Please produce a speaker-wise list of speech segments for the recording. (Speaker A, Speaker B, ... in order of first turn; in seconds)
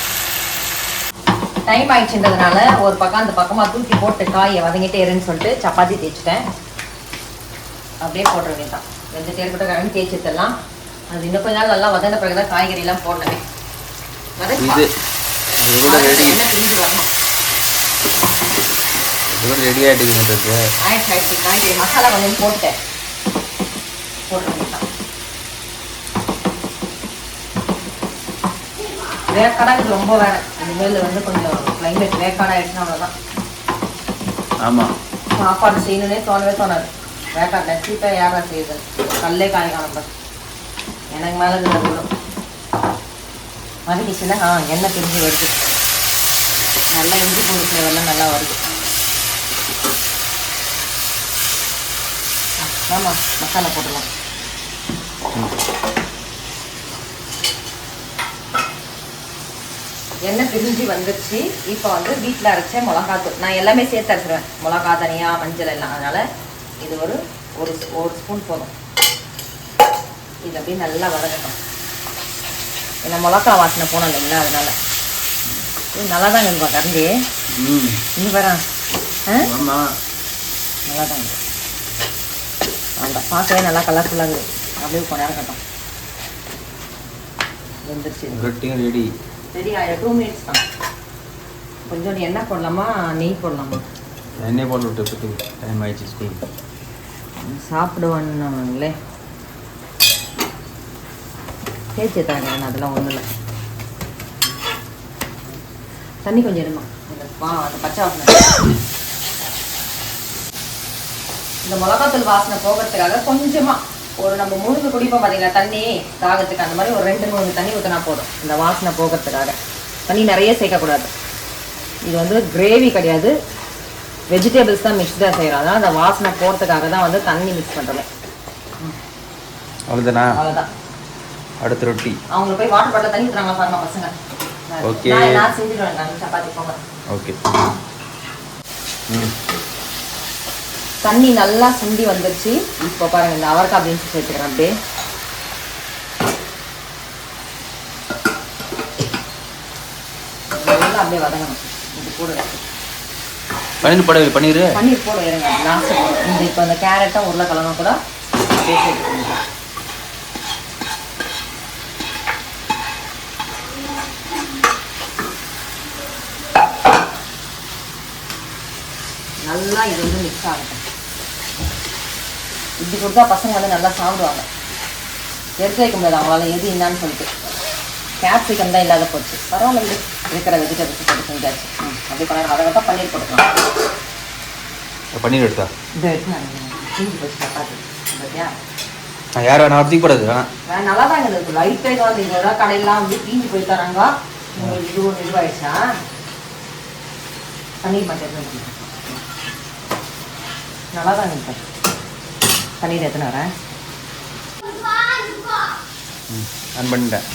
Speaker A: 1.7-6.4, 8.0-10.5, 11.1-13.4, 14.4-14.8, 15.8-17.1, 20.8-22.8, 24.3-24.8, 29.3-33.1, 35.3-40.1, 41.1-42.1, 43.9-45.6, 46.9-48.6, 52.7-54.1, 60.2-66.2, 66.8-68.7, 70.4-71.6, 73.0-74.7, 75.9-77.1, 78.2-78.6, 80.9-81.4, 83.0-85.6, 87.8-88.5, 89.5-90.6, 91.8-93.8, 97.4-98.9, 102.0-103.2, 106.2-108.7, 111.6-119.5, 120.1-121.1, 122.0-123.3, 124.3-128.1, 130.3-130.7, 132.3-134.1, 134.7-136.8, 141.0-144.7, 150.5-152.6, 154.7-159.4, 169.4-170.8, 172.8-174.4, 175.6-177.3, 178.2-183.5, 186.0-188.5, 190.7-195.8, 197.8-199.2, 200.9-201.6, 202.8-203.5
Speaker B: 14.6-14.9, 15.6-16.4, 19.3-20.6, 34.6-34.9, 77.5-78.0, 79.4-79.9, 88.3-89.1, 94.4-96.4, 129.9-130.4, 131.6-132.2, 134.8-135.5, 137.1-137.5, 139.1-139.3, 153.8-154.8, 185.1-185.7, 189.3-190.5, 206.3-207.2